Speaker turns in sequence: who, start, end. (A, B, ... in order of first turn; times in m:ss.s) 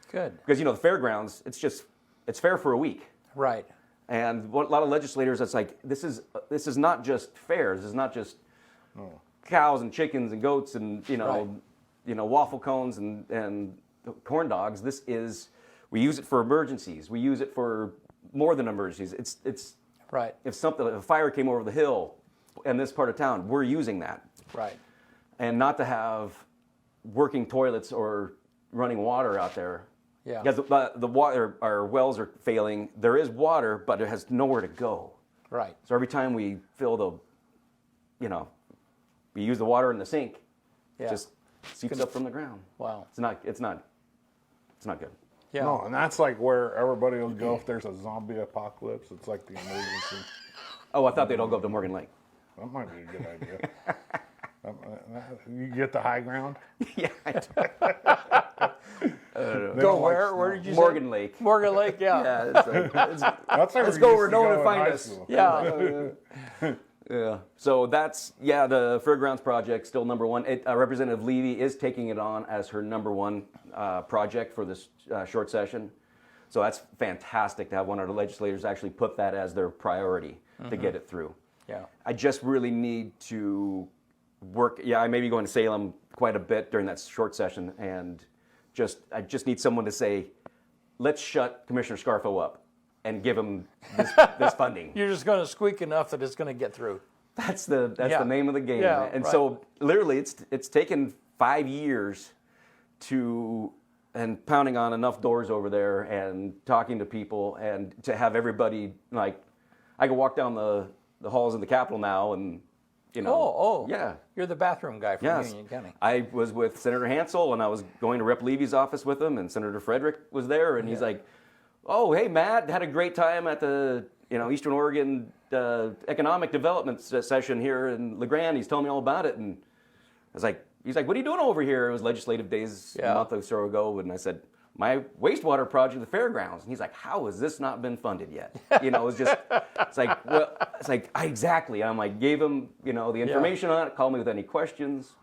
0:00.1-0:00.4 A
0:00.4-0:03.1 B
0:03.3-0:03.7 A
0:04.1-0:08.4 B
0:08.9-0:09.2 C
0:09.4-0:19.8 B
0:20.1-0:20.4 A
0:20.4-0:24.2 B
0:24.5-0:24.8 A
0:25.4-0:26.4 B
0:27.0-0:29.8 B
0:30.4-0:35.2 B
0:35.5-0:35.8 A
0:35.8-0:37.2 B
0:38.2-0:38.5 B
0:39.3-0:40.4 B
0:41.0-0:41.2 A
0:41.0-0:43.8 B
0:42.8-0:43.1 A
0:44.8-0:45.1 B
0:45.5-0:45.8 A
0:45.6-0:50.3 C
0:50.9-0:52.1 B
0:52.6-0:53.7 C
0:54.6-0:56.6 C
0:56.8-0:58.4 B
0:57.6-0:57.8 C
0:59.0-1:00.7 C
0:59.3-1:00.1 B
0:59.7-1:02.8 A
1:00.6-1:06.2 B
1:02.7-1:06.7 C
1:05.3-1:05.8 A
1:07.0-1:15.9 B
1:16.5-1:21.4 B
1:20.6-1:20.9 A
1:22.0-1:23.9 B
1:24.4-1:30.3 B
1:31.0-1:35.0 B
1:34.0-1:37.0 A
1:37.4-1:42.3 B
1:38.0-1:39.4 A
1:43.0-1:49.4 B
1:50.0-1:54.2 B
1:53.2-1:55.9 A
1:55.2-2:01.2 B
2:01.8-2:09.6 B
2:10.3-2:25.1 B
2:12.9-2:13.3 A
2:19.1-2:19.6 A
2:23.2-2:23.5 A